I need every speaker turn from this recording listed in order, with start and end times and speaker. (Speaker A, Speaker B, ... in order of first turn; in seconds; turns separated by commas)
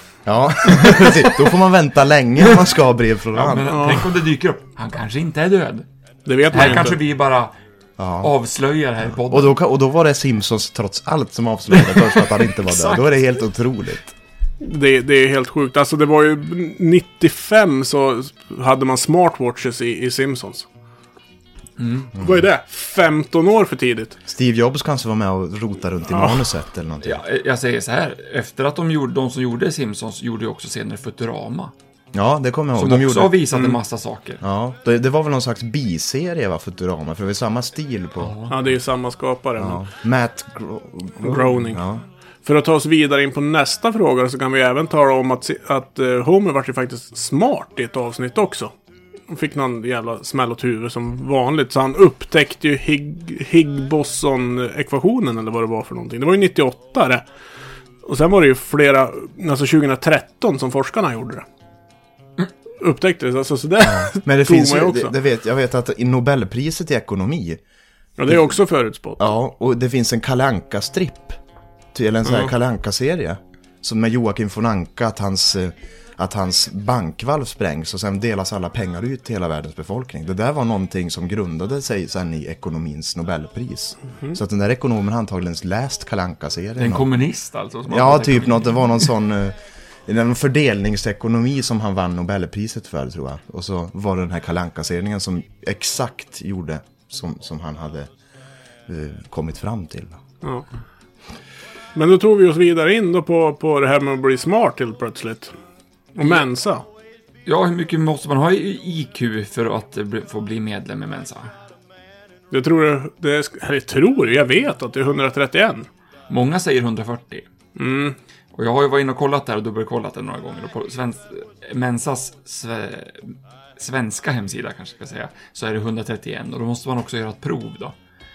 Speaker A: 0.2-4.0, Speaker B: 0.6-1.3, Speaker B: 3.4-5.9, Speaker C: 3.7-4.1, Speaker C: 6.3-7.0, Speaker B: 6.5-7.5, Speaker A: 8.0-8.3, Speaker B: 8.2-9.6, Speaker A: 9.1-14.2, Speaker B: 11.9-13.1, Speaker C: 14.6-20.7, Speaker B: 21.8-22.1, Speaker A: 22.2-22.4, Speaker C: 22.2-24.2, Speaker A: 24.3-27.2, Speaker C: 26.1-26.5, Speaker B: 27.0-31.7, Speaker A: 32.1-33.6, Speaker B: 32.8-34.4, Speaker A: 34.4-38.4, Speaker B: 38.2-38.5, Speaker C: 38.5-39.9, Speaker A: 39.6-42.0, Speaker C: 41.2-41.8, Speaker C: 42.5-48.7, Speaker C: 49.3-57.2, Speaker C: 58.0-61.4, Speaker C: 62.8-65.1, Speaker A: 63.8-67.6, Speaker C: 68.2-69.3, Speaker A: 69.2-71.4, Speaker A: 71.9-87.2, Speaker C: 72.3-72.5, Speaker B: 86.8-89.1, Speaker A: 87.9-98.1, Speaker A: 98.9-100.2, Speaker C: 102.0-105.5, Speaker C: 106.2-106.8, Speaker B: 107.5-111.5, Speaker C: 112.5-115.9, Speaker B: 116.3-117.5, Speaker C: 117.8-118.2, Speaker B: 118.5-128.0